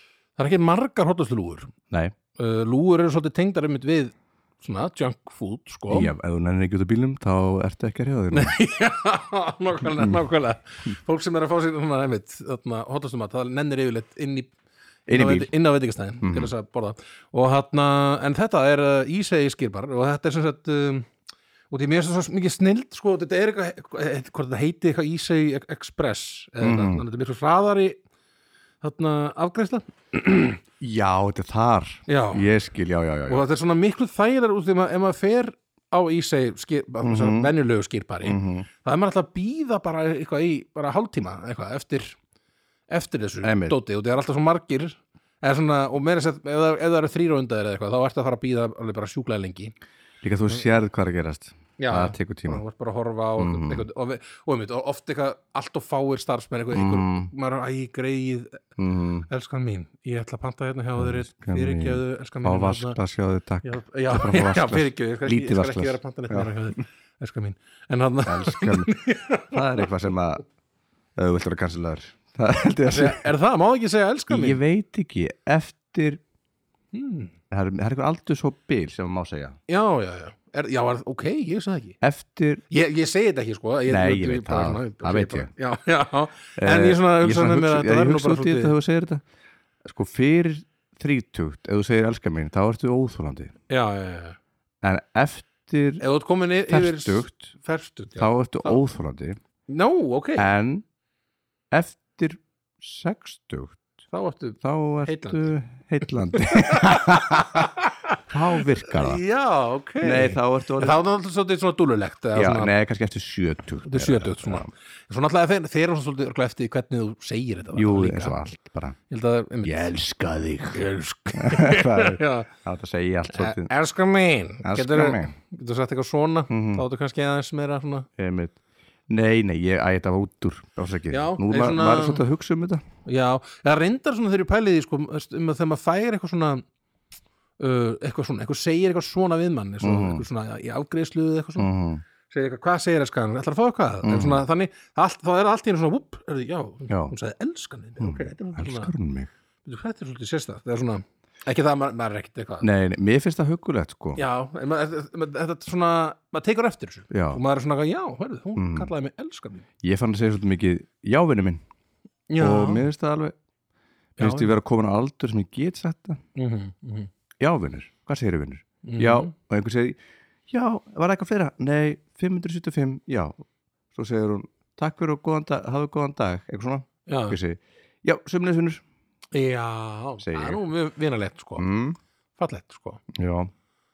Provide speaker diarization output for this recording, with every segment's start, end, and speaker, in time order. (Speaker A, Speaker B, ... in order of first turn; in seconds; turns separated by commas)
Speaker A: 0.4-1.7, Speaker B: 1.9-2.1, Speaker A: 2.4-6.1, Speaker B: 5.9-8.6, Speaker A: 8.3-14.5, Speaker B: 15.1-15.5, Speaker A: 15.1-21.1, Speaker B: 16.2-16.5, Speaker A: 21.7-28.0, Speaker B: 26.6-27.0, Speaker A: 28.8-30.6, Speaker B: 30.8-33.5, Speaker A: 32.1-32.5, Speaker A: 33.3-42.2, Speaker B: 37.0-37.5, Speaker B: 38.2-38.7, Speaker A: 42.9-49.7, Speaker B: 43.4-43.8, Speaker B: 50.2-52.6, Speaker A: 51.8-58.6, Speaker B: 53.4-53.9, Speaker B: 56.7-57.3, Speaker B: 58.8-59.3, Speaker A: 59.3-63.0, Speaker B: 61.0-66.5, Speaker A: 63.6-69.9, Speaker B: 68.3-69.0, Speaker B: 69.5-70.4, Speaker B: 71.2-73.3, Speaker A: 72.9-74.6, Speaker B: 74.3-76.2, Speaker A: 76.9-77.3, Speaker B: 77.5-79.6, Speaker A: 79.7-82.0, Speaker B: 82.0-82.6, Speaker A: 82.7-88.8, Speaker B: 83.9-85.5, Speaker B: 86.6-89.2, Speaker B: 89.8-93.5, Speaker A: 93.7-94.4, Speaker B: 94.8-96.0, Speaker A: 96.0-98.8, Speaker B: 96.7-97.5, Speaker B: 98.2-99.4, Speaker A: 99.7-100.5, Speaker B: 100.4-100.8, Speaker B: 101.7-103.8, Speaker A: 104.1-105.5, Speaker B: 104.6-107.7, Speaker A: 106.3-112.7, Speaker B: 108.3-109.2, Speaker B: 110.0-111.0, Speaker B: 112.3-114.7, Speaker A: 113.9-118.4, Speaker B: 117.7-119.0, Speaker A: 119.1-120.0, Speaker B: 119.6-120.8, Speaker A: 120.7-122.5, Speaker B: 121.4-123.7, Speaker A: 123.3-128.1, Speaker B: 124.6-125.3, Speaker B: 126.5-126.8, Speaker B: 128.2-132.8, Speaker A: 131.1-132.2, Speaker A: 133.1-136.6, Speaker A: 137.6-141.7, Speaker B: 139.8-140.2, Speaker B: 141.6-142.0, Speaker A: 142.3-148.9, Speaker B: 144.0-144.4, Speaker B: 146.9-147.1, Speaker B: 148.0-149.3, Speaker A: 149.7-152.7, Speaker B: 152.6-154.2, Speaker A: 154.2-159.7, Speaker B: 157.1-157.4, Speaker B: 158.6-158.9, Speaker B: 159.8-161.6, Speaker A: 162.3-162.9, Speaker B: 162.4-163.3, Speaker A: 164.2-164.6, Speaker B: 164.2-166.2, Speaker A: 166.4-167.1, Speaker B: 167.4-170.0, Speaker A: 168.8-169.3, Speaker B: 170.5-178.8, Speaker A: 177.1-177.4, Speaker A: 179.3-181.7, Speaker B: 180.2-180.6, Speaker B: 181.6-182.0, Speaker A: 182.4-183.0, Speaker B: 183.1-183.5